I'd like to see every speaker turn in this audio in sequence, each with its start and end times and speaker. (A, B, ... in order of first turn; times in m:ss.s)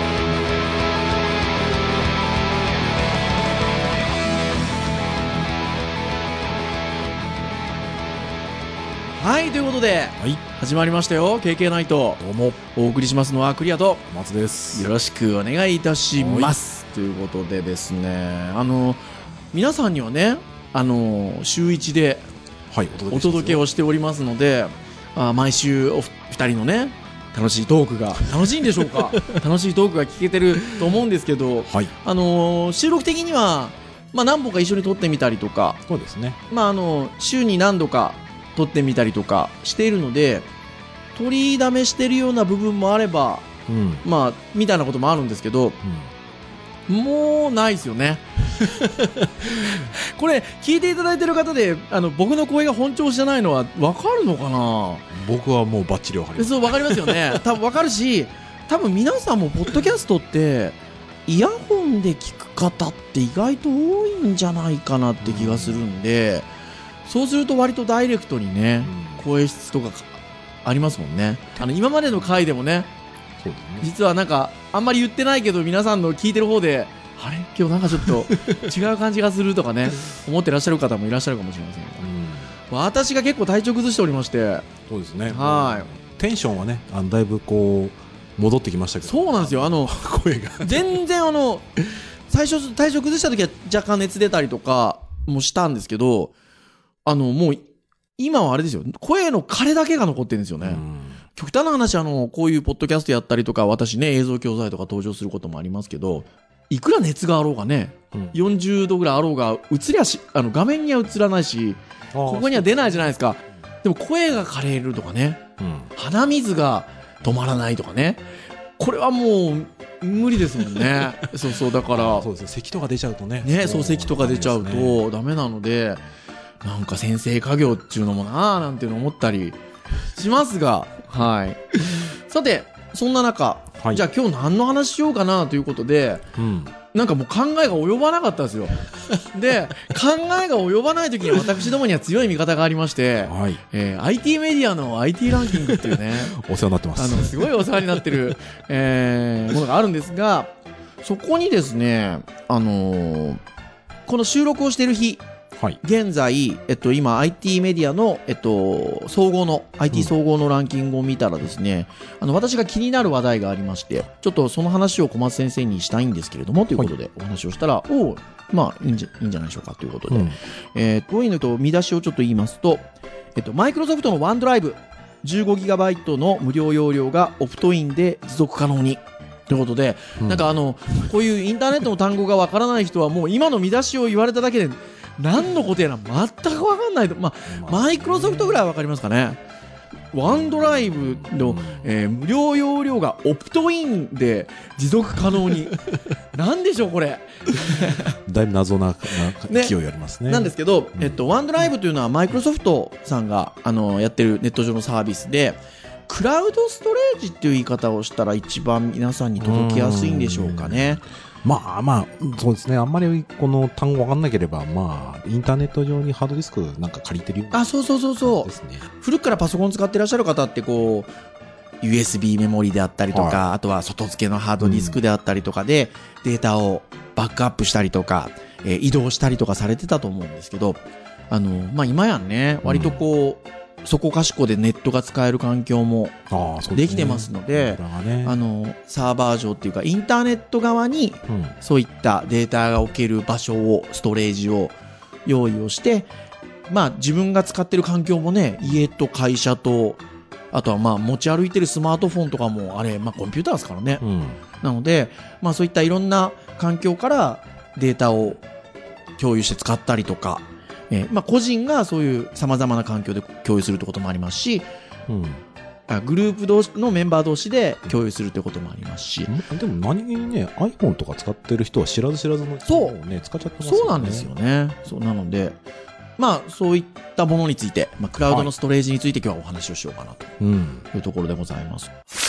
0:09.2-0:14.1 A
0:12.2-0:12.6 B
0:14.1-0:14.9 B
0:14.7-0:19.0 A
0:16.2-0:16.6 B
0:19.5-0:22.2 A
0:22.7-0:23.6 B
0:23.1-0:35.8 A
0:28.7-0:29.0 B
0:35.9-0:36.4 B
0:36.5-0:40.5 A
0:41.1-0:43.5 A
0:43.7-0:44.0 B
0:44.0-0:45.8 A
0:45.8-0:46.1 B
0:46.9-0:48.8 A
0:48.8-0:49.5 B
0:49.4-0:55.0 A
0:55.1-0:57.4 B
0:56.4-1:06.5 A
1:05.2-1:05.8 B
1:07.0-1:12.9 A
1:08.8-1:09.2 B
1:13.4-1:13.9 B
1:13.8-1:22.1 A
1:18.0-1:18.7 B
1:22.0-1:22.6 B
1:22.7-1:24.7 A
1:24.9-1:31.0 B
1:25.3-1:25.9 A
1:29.0-1:30.0 A
1:30.6-1:31.7 A
1:32.3-1:36.3 A
1:37.0-1:37.6 A
1:38.2-1:40.8 A
1:40.6-1:41.2 B
1:41.4-1:55.4 A
1:52.1-1:53.2 B
1:55.6-1:55.9 B
1:55.9-1:58.2 A
1:58.8-2:02.3 A
2:01.9-2:05.0 B
2:03.4-2:06.0 A
2:06.6-2:09.6 A
2:10.1-2:16.2 A
2:13.8-2:14.0 B
2:16.4-2:16.7 B
2:16.9-2:26.4 A
2:23.3-2:23.6 B
2:25.4-2:28.3 B
2:27.0-2:30.5 A
2:31.0-2:33.4 A
2:34.1-2:35.2 A
2:35.8-3:09.4 A
2:50.1-2:50.4 B
3:00.2-3:00.5 B
3:07.5-3:08.6 B
3:10.1-3:15.8 A
3:10.3-3:11.9 B
3:16.3-3:18.1 A
3:17.7-3:21.2 B
3:19.5-3:19.7 A
3:20.3-3:31.0 A
3:29.4-3:30.9 B
3:31.4-3:38.8 B
3:37.5-3:41.1 A
3:41.8-3:56.2 A
3:43.1-3:43.5 B
3:44.6-3:45.0 B
3:52.6-3:53.0 B
3:56.3-3:58.4 B
3:56.7-4:06.1 A
4:01.3-4:01.5 B
4:06.7-4:10.0 A
4:10.5-4:14.0 A
4:14.0-4:14.4 B
4:14.6-4:18.4 A
4:19.2-4:24.7 A
4:25.1-4:25.4 B
4:25.9-4:29.3 A
4:29.3-4:34.3 B
4:32.7-4:32.9 A
4:33.6-4:35.6 A
4:36.2-4:40.3 A
4:40.4-4:40.9 B
4:40.9-4:41.9 A